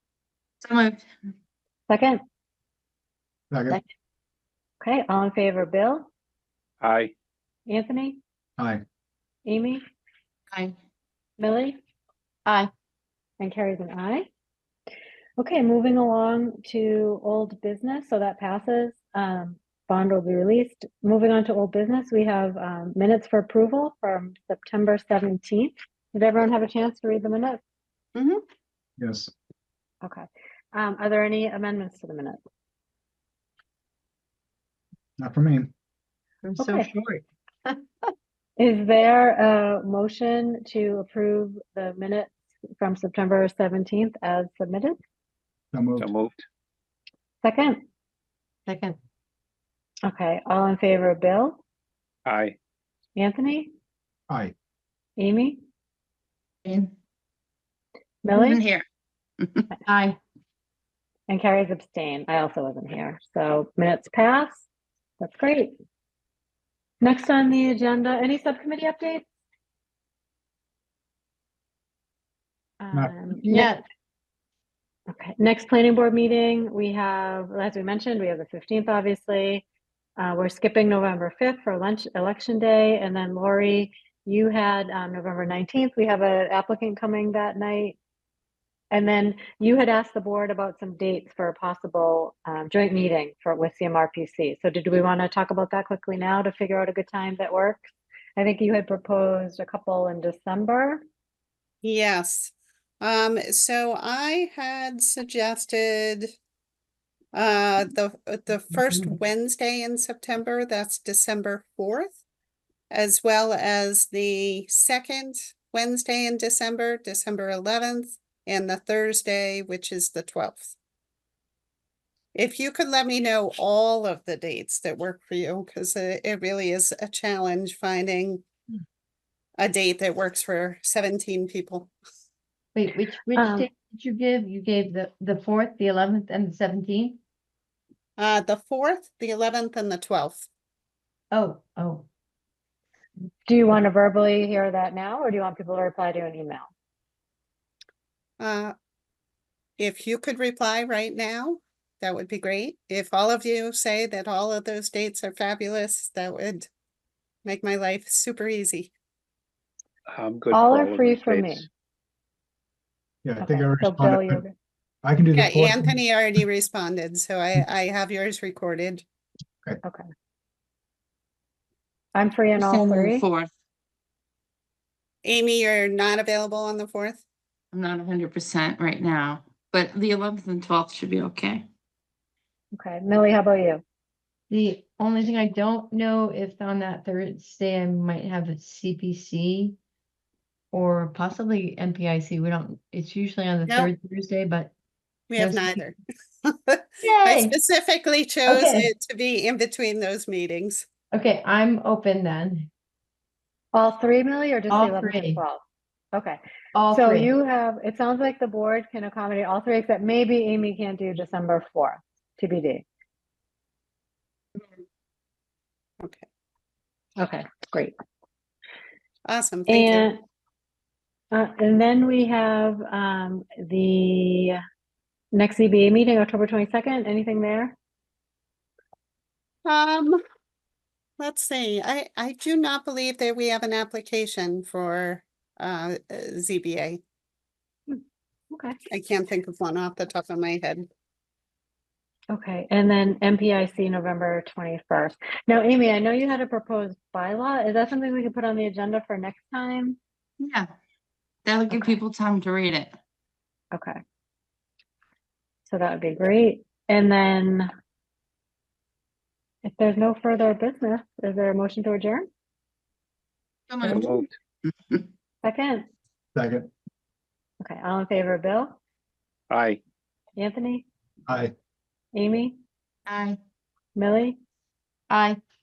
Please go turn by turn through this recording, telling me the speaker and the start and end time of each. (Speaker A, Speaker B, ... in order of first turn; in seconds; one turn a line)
Speaker A: 0.6-1.0
Speaker B: 1.9-2.2
Speaker C: 3.5-3.8
Speaker B: 4.8-6.1
Speaker D: 6.8-7.1
Speaker B: 7.7-8.2
Speaker C: 8.6-8.8
Speaker B: 9.5-9.8
Speaker B: 11.4-11.8
Speaker B: 13.4-14.3
Speaker B: 15.4-27.6
Speaker E: 28.1-28.4
Speaker C: 29.0-29.3
Speaker B: 30.0-32.4
Speaker C: 35.2-35.7
Speaker F: 36.4-37.8
Speaker B: 36.6-36.9
Speaker B: 38.6-45.0
Speaker C: 45.7-46.1
Speaker D: 46.0-46.4
Speaker B: 47.4-47.8
Speaker F: 48.7-49.0
Speaker B: 50.0-51.6
Speaker D: 52.3-52.6
Speaker B: 53.2-53.7
Speaker C: 54.3-54.5
Speaker B: 55.2-55.6
Speaker B: 58.2-58.6
Speaker A: 58.3-58.8
Speaker A: 59.4-59.6
Speaker F: 59.9-60.2
Speaker B: 61.3-64.7
Speaker B: 65.2-65.8
Speaker B: 67.0-69.2
Speaker B: 72.8-73.7
Speaker C: 72.9-73.7
Speaker F: 73.5-73.8
Speaker B: 75.1-79.7
Speaker B: 80.2-88.0
Speaker B: 88.9-97.9
Speaker B: 98.4-101.0
Speaker E: 101.8-106.3
Speaker E: 107.3-112.2
Speaker E: 112.9-120.7
Speaker E: 122.3-128.4
Speaker E: 129.6-131.9
Speaker F: 132.8-137.2
Speaker B: 133.3-133.7
Speaker E: 138.2-140.5
Speaker F: 141.3-142.1
Speaker B: 143.5-146.7
Speaker E: 148.4-148.7
Speaker E: 149.8-156.7
Speaker E: 157.4-158.9
Speaker D: 160.1-161.7
Speaker B: 160.5-161.7
Speaker C: 163.2-164.4
Speaker B: 163.4-164.5
Speaker C: 165.0-166.0
Speaker E: 165.3-169.0
Speaker B: 172.2-173.3
Speaker A: 172.6-173.5
Speaker E: 175.2-177.2
Speaker A: 177.7-181.7
Speaker B: 182.8-183.8
Speaker F: 184.5-189.8
Speaker F: 190.7-194.7
Speaker E: 195.3-200.9
Speaker F: 195.4-195.8
Speaker F: 197.0-197.6
Speaker F: 198.5-198.9
Speaker F: 201.1-202.7
Speaker B: 203.7-212.8
Speaker F: 204.7-205.4
Speaker F: 206.7-207.3
Speaker E: 216.0-216.2
Speaker B: 217.2-218.0
Speaker E: 219.3-220.1
Speaker B: 219.7-220.2
Speaker B: 221.3-224.6
Speaker B: 225.3-227.8
Speaker E: 229.7-230.2
Speaker E: 231.2-237.0
Speaker B: 237.9-238.8
Speaker E: 238.9-240.9
Speaker B: 242.3-250.0
Speaker A: 250.4-250.7
Speaker A: 251.4-252.9
Speaker B: 251.7-252.0
Speaker B: 253.7-254.0
Speaker B: 255.7-257.7
Speaker B: 259.6-262.3
Speaker A: 263.7-264.1
Speaker B: 263.8-264.2
Speaker D: 263.9-264.4
Speaker B: 265.4-265.9
Speaker C: 266.4-266.7
Speaker B: 267.6-268.8
Speaker D: 269.5-269.8
Speaker B: 270.4-270.9
Speaker C: 271.3-271.5
Speaker B: 272.1-272.6
Speaker F: 273.1-273.4
Speaker B: 274.0-274.4
Speaker F: 275.1-275.4